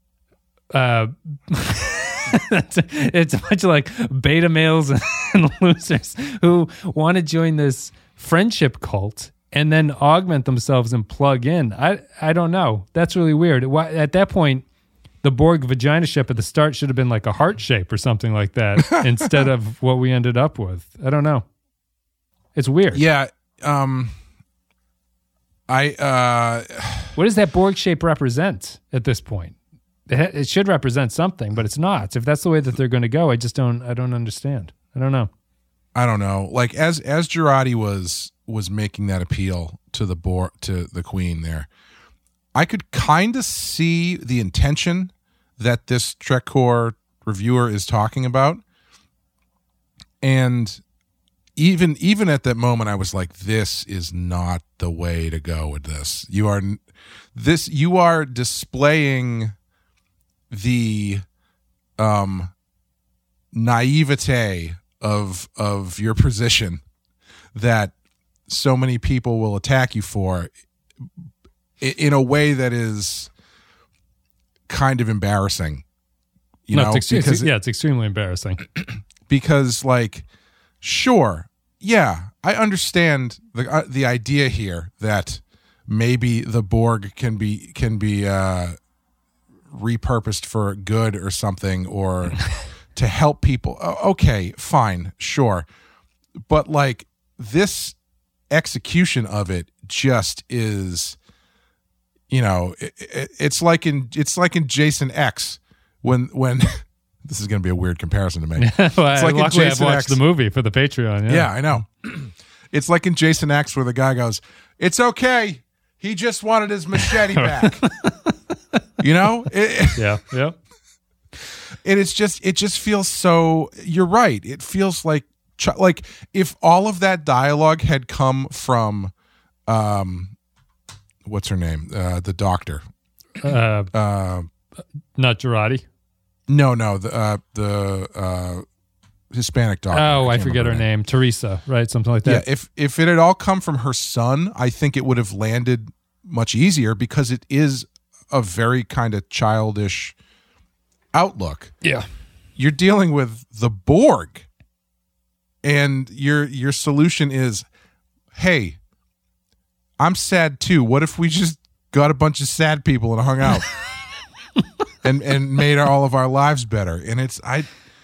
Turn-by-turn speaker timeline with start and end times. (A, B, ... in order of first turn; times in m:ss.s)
0:00.7-0:14.6 A
0:15.2-0:21.4 A
0:22.5-0:23.0 A
0:22.9-0:24.1 B
0:25.7-0:27.1 B
0:27.2-0:29.6 A
0:30.1-0:35.3 A
0:35.9-0:41.7 B
0:42.5-0:48.6 B
0:50.2-0:50.8 B
0:51.6-0:56.8 B
0:57.3-0:59.5 B
1:00.5-1:01.2 B
1:02.0-1:02.5 B
1:03.5-1:06.8 B
1:07.5-1:07.9 B
1:08.5-1:10.5 B
1:11.8-1:13.3 B
1:14.7-1:15.8 B
1:16.7-1:17.5 B
1:16.7-1:18.6 A
1:19.3-1:20.3 B
1:20.8-1:28.7 B
1:29.7-1:35.6 B
1:36.5-1:38.0 B
1:38.5-1:41.2 B
1:42.3-1:50.2 B
1:48.6-1:51.5 A
1:51.3-1:57.8 B
1:57.4-1:58.4 A
1:59.0-2:00.2 B
2:00.0-2:00.6 A
2:01.8-2:09.1 B
2:09.7-2:10.3 B
2:11.2-2:12.8 B
2:13.4-2:13.9 A
2:13.9-2:14.5 B
2:15.2-2:15.8 A
2:16.5-2:18.6 B
2:19.3-2:20.8 B
2:19.9-2:22.4 A
2:22.2-2:30.2 B
2:31.1-2:31.7 B
2:32.6-2:34.4 B
2:35.6-2:37.6 B
2:38.3-2:38.8 B
2:40.0-2:43.7 B
2:45.0-2:47.7 B